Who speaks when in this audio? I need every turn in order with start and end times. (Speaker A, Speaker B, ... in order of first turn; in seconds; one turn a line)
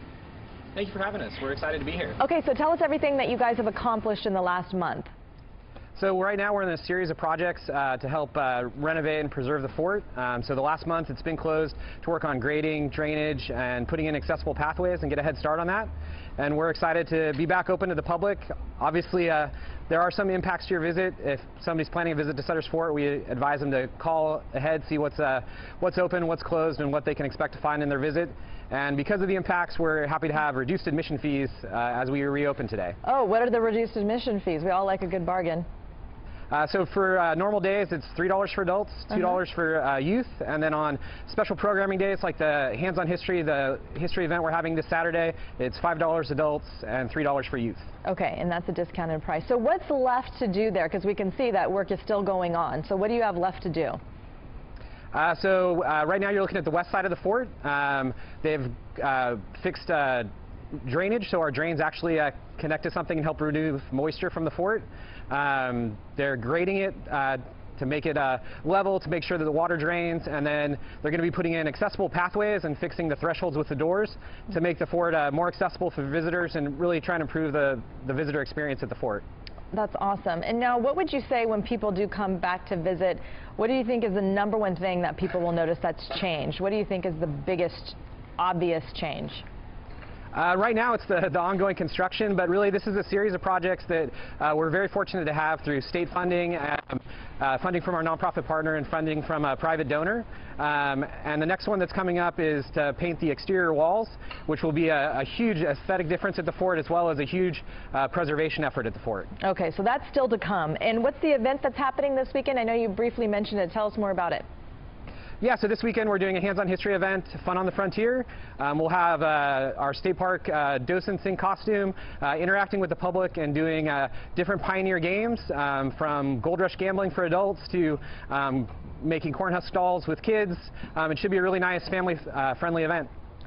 Speaker A: 0.7-2.2
Speaker B: 2.2-5.1
Speaker A: 6.0-33.0
Speaker B: 33.0-35.7
Speaker A: 36.5-47.9
Speaker B: 48.0-54.0
Speaker A: 55.1-60.3
Speaker A: 60.8-79.2
Speaker B: 79.7-89.5
Speaker A: 90.3-109.3
Speaker B: 109.4-114.5
Speaker A: 115.4-133.1